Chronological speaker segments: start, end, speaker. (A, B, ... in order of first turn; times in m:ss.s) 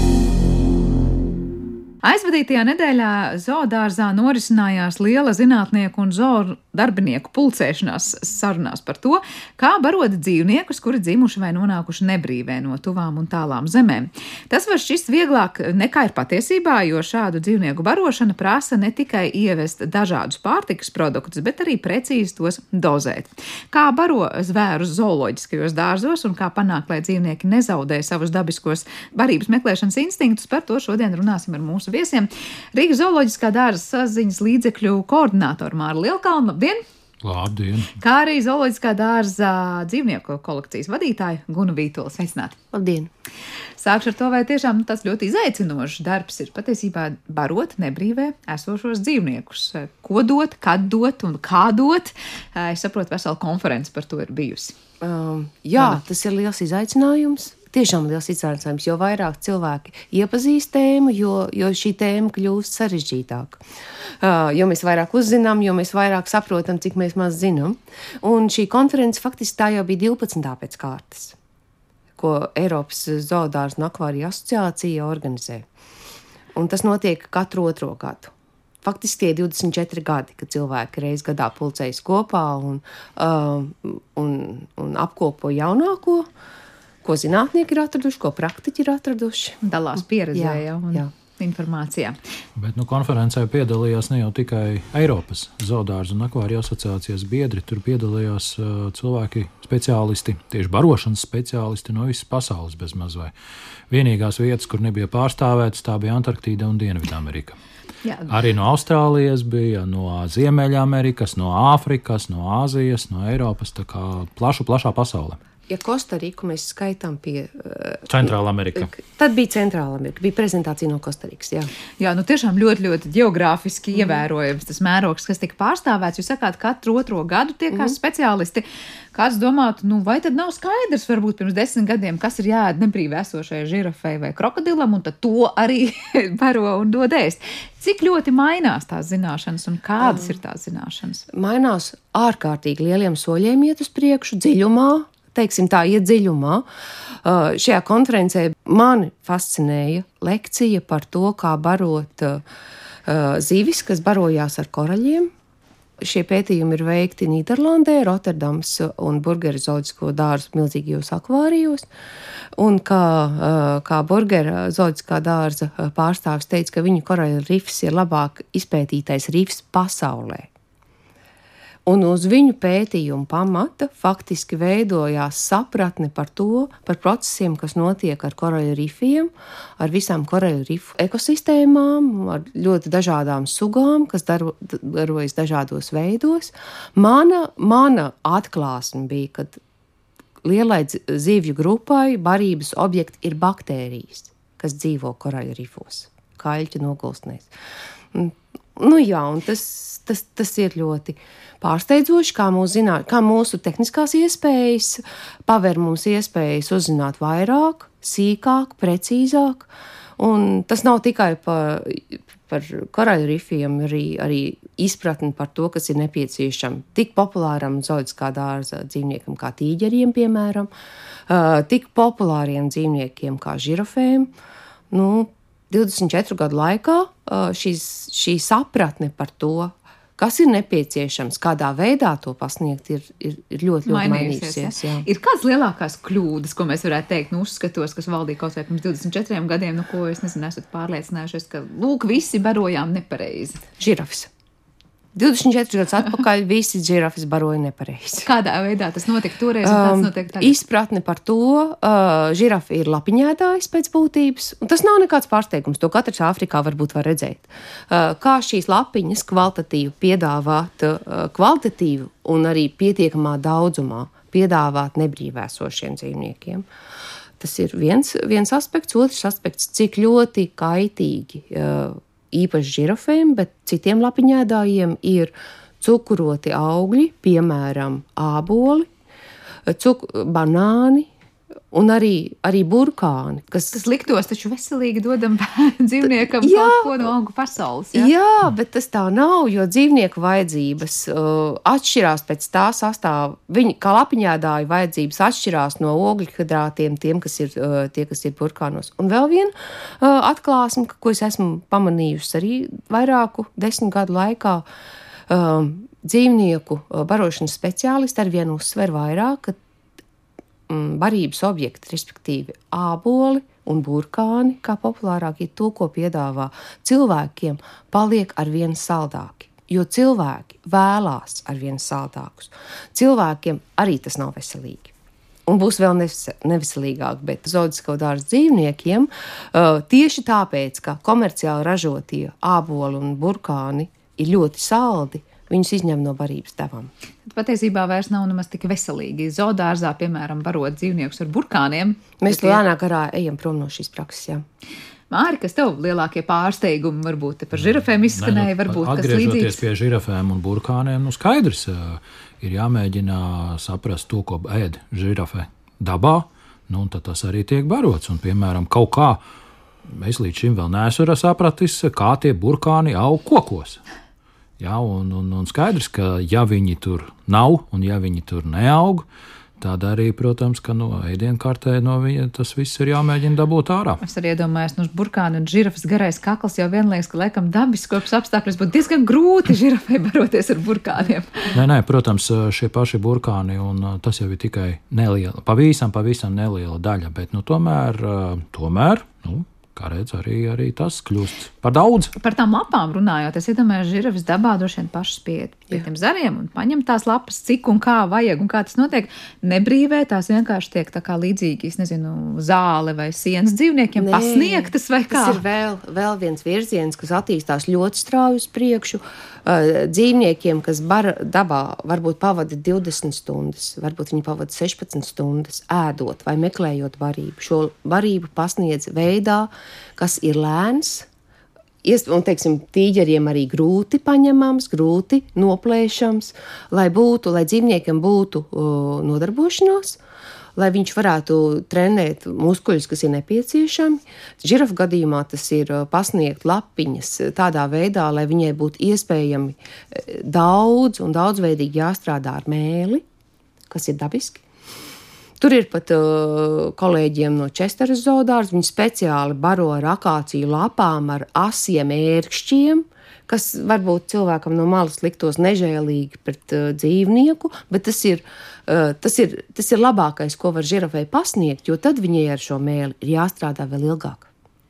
0:02.0-0:36.8 A
0:37.2-0:37.9 B
0:38.0-0:42.6 A
0:42.7-0:43.1 C
0:43.8-0:54.7 A
0:55.0-1:03.6 C
1:04.2-1:11.4 C
1:12.2-1:15.6 C
1:16.5-1:26.3 C
1:27.0-1:29.6 C
1:29.6-1:32.2 A
1:30.3-1:31.1 C
1:32.6-1:43.3 B
1:43.9-1:47.6 B
1:48.0-1:48.3 A
1:48.3-1:55.4 B
1:55.7-2:01.7 C
1:58.1-1:58.9 B
2:02.0-2:21.2 A
2:20.0-2:20.3 C
2:21.3-2:26.6 C
2:27.2-2:32.4 C
2:33.0-2:35.3 C
2:36.0-2:41.9 C
2:42.6-2:50.5 C
2:51.8-3:09.6 C
3:10.4-3:17.5 C
3:18.1-3:40.7 C
3:41.3-3:44.3 C
3:44.9-3:55.0 C
3:53.8-4:03.6 A
4:03.8-4:04.3 C
4:05.1-4:08.3 C
4:08.2-4:10.6 A
4:09.6-4:26.6 C
4:27.4-4:38.9 C
4:39.6-4:41.1 C
4:41.7-4:43.8 C
4:43.7-4:48.1 A
4:46.0-4:47.1 C
4:47.9-5:04.6 C
5:05.3-5:09.6 C
5:10.7-5:24.9 C
5:25.4-5:36.9 C
5:37.2-5:42.6 A
5:42.2-5:44.4 C
5:45.1-5:49.6 A
5:47.6-5:59.2 B
5:59.9-6:03.8 B
6:04.6-6:09.0 B
6:09.6-6:14.0 B
6:14.0-6:21.5 A
6:21.5-6:32.1 B
6:32.2-6:45.4 A
6:44.0-7:01.1 C
7:01.8-7:10.0 C
7:10.6-7:23.0 C
7:23.7-7:24.4 C
7:25.4-7:44.3 C